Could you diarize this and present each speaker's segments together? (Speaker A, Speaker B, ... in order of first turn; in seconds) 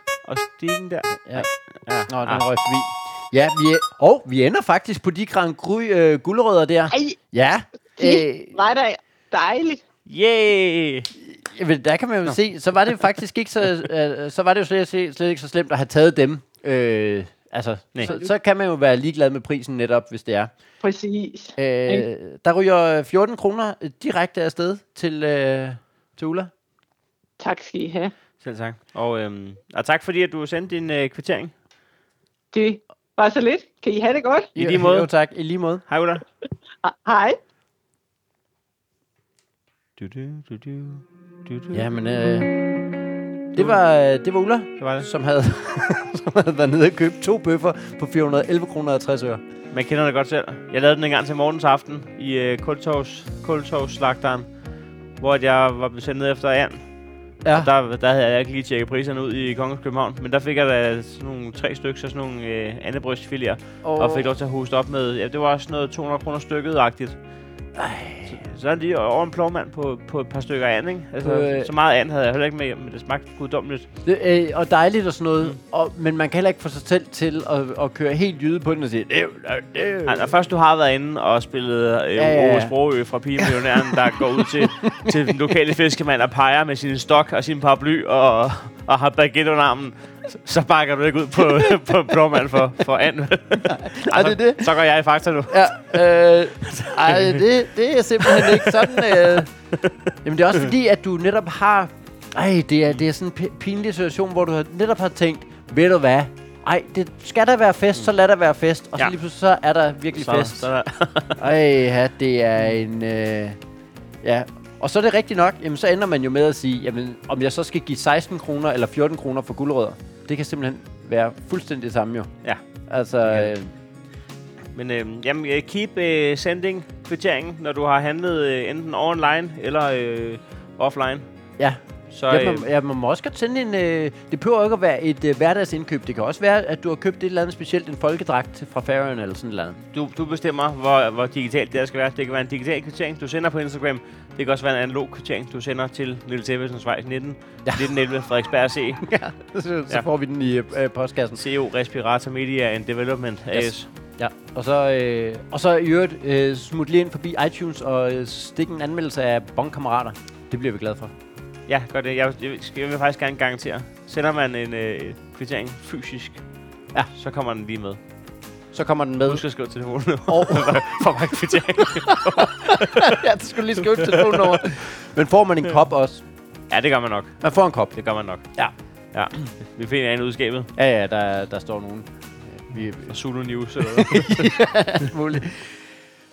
Speaker A: 0.2-2.4, 10.1-11.1, 28.4-31.5, 34.5-35.1, 35.9-36.2, 40.0-41.8, 44.8-45.1, 49.7-54.5, 55.2-56.9, 57.5-67.2, 68.3-73.9, 80.1-95.7, 96.7-97.4, 98.2-99.9, 110.1-111.5, 123.2-123.5, 124.7-131.3, 132.1-132.7, 139.9-149.0, 151.4-153.9, 161.7-166.4, 167.1-168.0, 169.3-173.2, 173.9-174.8, 176.7-177.4, 177.9-178.4, 179.1-180.7, 183.1-184.5
Speaker B: 2.1-8.5, 11.2-20.5, 21.6-26.5, 34.5-35.8, 41.7-42.9, 43.5-49.4, 57.4-57.7, 63.8-64.3, 67.8-68.4, 71.2-71.7, 74.0-80.3, 82.1-82.7, 83.4-85.3, 93.6-94.7, 95.5-99.5, 100.2-110.7, 111.4-113.6, 114.2-122.3, 122.9-123.7, 131.6-139.8, 149.0-151.4, 153.5-161.1, 168.7-169.4, 170.3-170.8, 171.8-176.2, 177.4-177.9, 180.7-183.2, 183.8-185.8
Speaker C: 6.9-7.2, 8.0-9.8, 20.8-22.1, 27.4-28.1, 32.5-34.5, 36.8-37.4